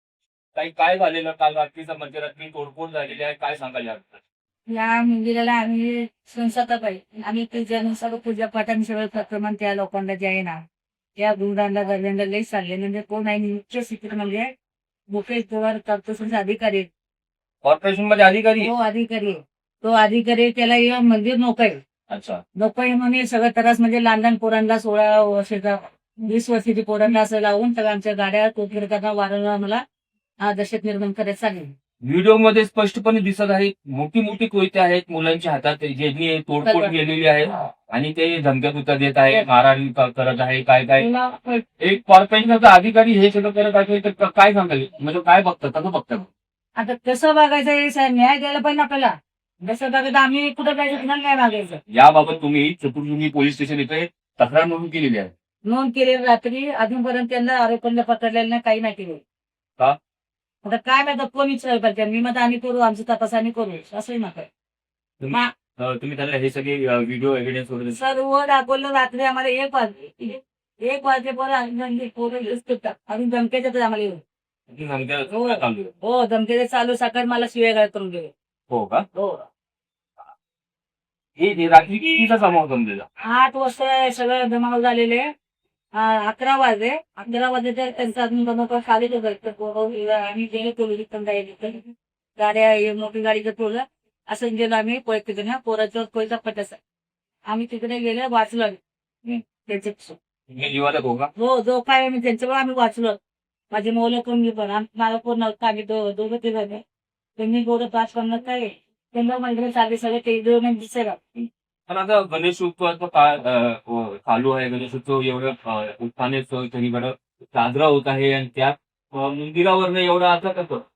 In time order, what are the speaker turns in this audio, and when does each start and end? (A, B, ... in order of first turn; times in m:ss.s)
0:00.6-0:04.2 A
0:04.7-0:10.6 B
0:11.2-0:14.5 B
0:15.1-0:16.9 B
0:17.6-0:18.7 A
0:18.6-0:21.8 B
0:22.1-0:22.4 A
0:22.6-0:29.8 B
0:30.4-0:31.7 B
0:32.0-0:46.3 A
0:36.6-0:36.9 B
0:41.1-0:41.4 B
0:46.8-0:51.8 B
0:51.9-0:55.3 A
0:55.6-0:59.2 B
1:00.6-1:04.5 B
1:05.2-1:08.0 A
1:07.9-1:14.2 B
1:14.7-1:15.9 A
1:15.3-1:18.3 B
1:18.7-1:19.1 A
1:19.1-1:19.5 B
1:21.4-1:23.1 A
1:23.2-1:25.3 B
1:26.0-1:36.8 B
1:37.5-1:40.2 B
1:40.5-1:41.3 A
1:41.4-1:43.2 B
1:43.7-1:46.8 B
1:47.4-1:51.2 B
1:51.4-2:00.9 A